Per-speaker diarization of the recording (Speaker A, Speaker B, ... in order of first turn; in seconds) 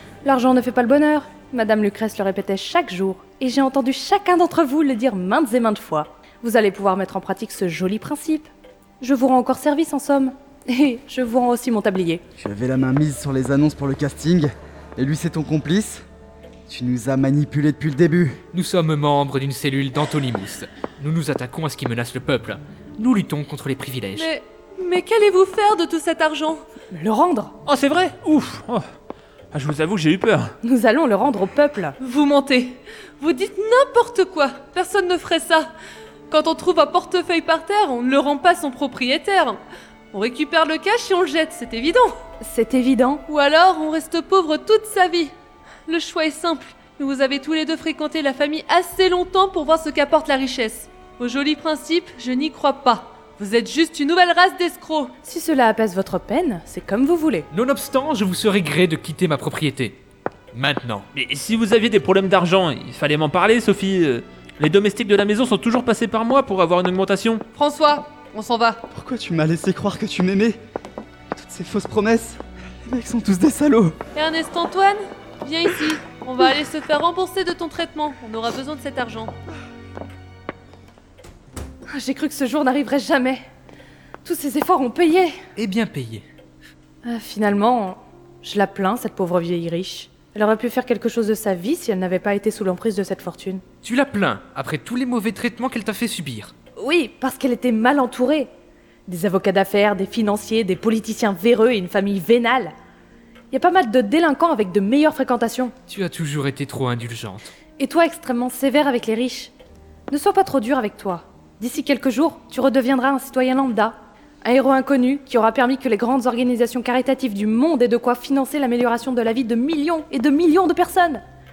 Speaker A: 0.2-12.2, 26.9-27.6, 30.6-32.0, 42.4-43.2, 55.2-57.5, 81.9-83.5, 84.2-85.4, 87.0-93.6, 96.8-98.5, 99.1-102.7, 103.5-105.7, 107.8-109.5, 110.1-121.2
Speaker B: 12.4-16.1, 16.7-18.4, 68.9-70.6, 71.3-74.0
Speaker C: 18.5-24.3, 57.5-60.0, 60.5-61.1, 85.6-86.2, 93.8-96.5, 105.9-107.5
Speaker D: 24.1-26.6, 32.0-35.7, 36.3-39.6, 40.1-42.2, 43.3-45.3, 45.9-55.1, 67.5-68.8, 74.2-79.3
Speaker E: 27.7-28.9, 29.5-30.5, 61.1-67.4